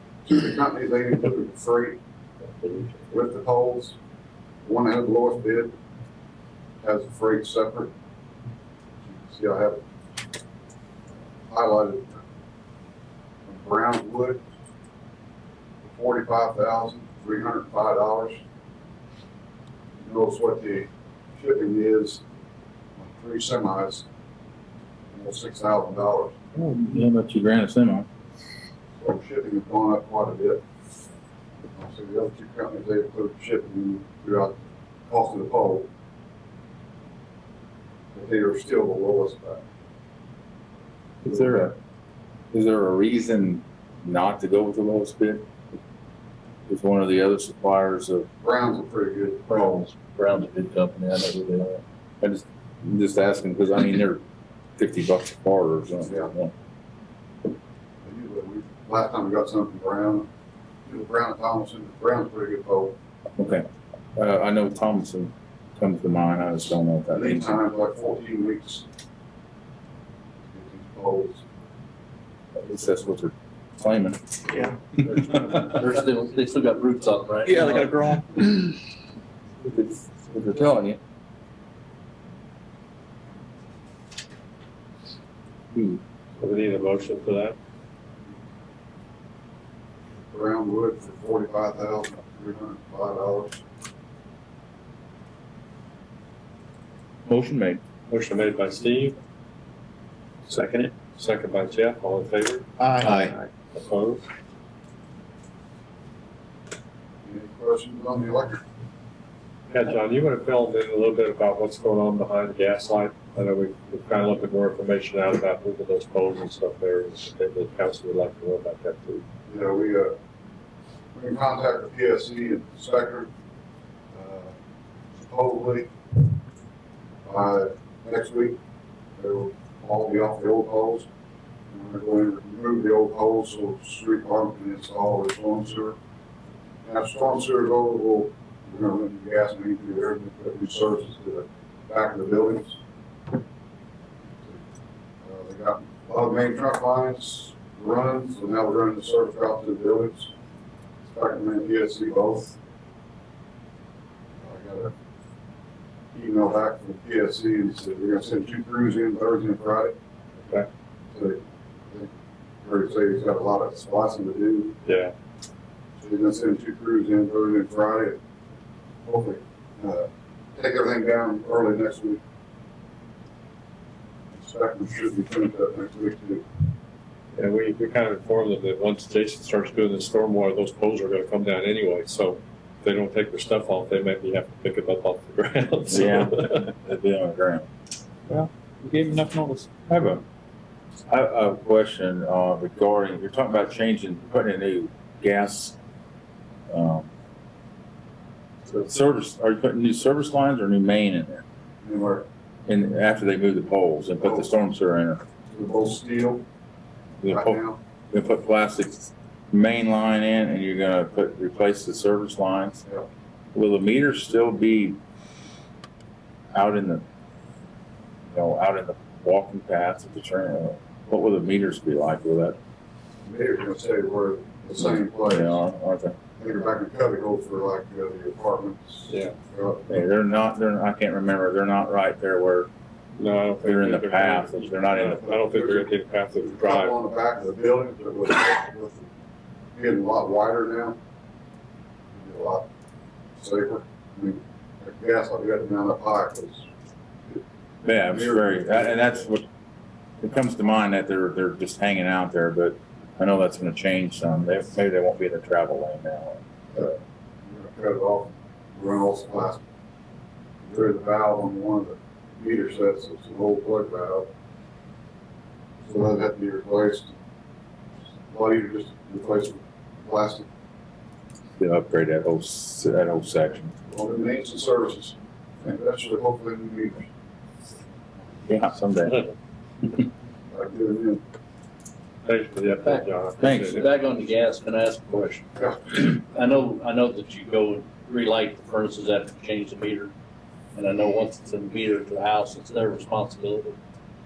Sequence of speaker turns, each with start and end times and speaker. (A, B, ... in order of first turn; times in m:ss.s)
0:00.3-0:02.0 A
0:03.1-0:04.0 A
0:04.6-0:05.7 A
0:06.8-0:07.9 A
0:09.0-0:09.8 A
0:11.5-0:12.2 A
0:13.5-0:14.4 A
0:15.8-0:18.4 A
0:20.0-0:22.2 A
0:23.0-0:24.0 A
0:25.1-0:26.4 A
0:26.5-0:28.1 B
0:29.0-0:30.6 A
0:31.7-0:35.9 A
0:38.1-0:39.6 A
0:41.2-0:41.8 B
0:42.5-0:45.5 B
0:46.7-0:48.3 B
0:48.4-0:49.8 A
0:49.5-0:51.8 C
0:52.2-0:54.2 B
0:54.8-0:56.5 B
0:56.0-0:56.3 A
0:58.0-1:00.3 A
1:00.8-1:03.0 A
1:03.4-1:07.6 B
1:07.1-1:08.9 A
1:10.5-1:11.4 A
1:12.6-1:14.2 B
1:15.3-1:17.9 C
1:17.4-1:18.4 D
1:19.6-1:21.0 B
1:25.7-1:26.0 B
1:26.4-1:27.6 E
1:30.3-1:33.6 A
1:37.2-1:37.8 B
1:38.1-1:39.2 E
1:40.5-1:44.2 E
1:42.8-1:43.4 D
1:47.2-1:48.6 A
1:49.7-1:59.2 E
1:59.5-2:00.2 A
2:01.1-2:03.3 A
2:04.1-2:04.5 A
2:05.1-2:05.9 A
2:07.2-2:08.6 A
2:09.2-2:11.1 A
2:11.7-2:16.0 A
2:16.8-2:22.8 A
2:25.2-2:30.3 A
2:31.0-2:32.6 A
2:34.4-2:34.9 A
2:36.1-2:40.0 A
2:41.1-2:42.1 A
2:42.6-2:44.8 A
2:44.8-2:45.1 E
2:46.0-2:48.2 A
2:49.0-2:52.2 A
2:54.3-2:56.4 A
2:57.4-3:06.7 E
3:05.9-3:07.7 B
3:08.3-3:09.8 D
3:09.9-3:10.2 B
3:11.1-3:15.8 B
3:16.7-3:17.1 B
3:18.7-3:21.4 B
3:21.8-3:22.3 A
3:22.7-3:25.2 B
3:24.2-3:24.5 A
3:25.5-3:26.4 A
3:27.2-3:32.8 B
3:27.2-3:27.8 A
3:33.5-3:35.0 B
3:36.5-3:37.0 B
3:38.3-3:42.6 B
3:43.2-3:45.6 A
3:44.8-3:46.2 B
3:46.4-3:49.9 A
3:49.1-3:49.3 E
3:49.9-3:52.7 B
3:53.2-3:57.0 E
3:53.6-3:55.4 B
3:55.1-3:59.1 A
3:59.7-4:01.0 A
4:02.1-4:02.7 A
4:03.4-4:06.7 A
4:07.8-4:09.4 B
4:08.0-4:09.2 A
4:10.2-4:16.4 B
4:17.4-4:19.6 A
4:20.6-4:24.3 A
4:25.8-4:27.2 A
4:28.3-4:30.5 A
4:31.6-4:33.7 B
4:33.9-4:37.1 A
4:38.5-4:39.2 B
4:40.5-4:41.2 A
4:42.2-4:43.9 E
4:42.7-4:50.1 C
4:43.4-4:43.8 B
4:45.6-4:45.8 A
4:50.7-4:53.7 C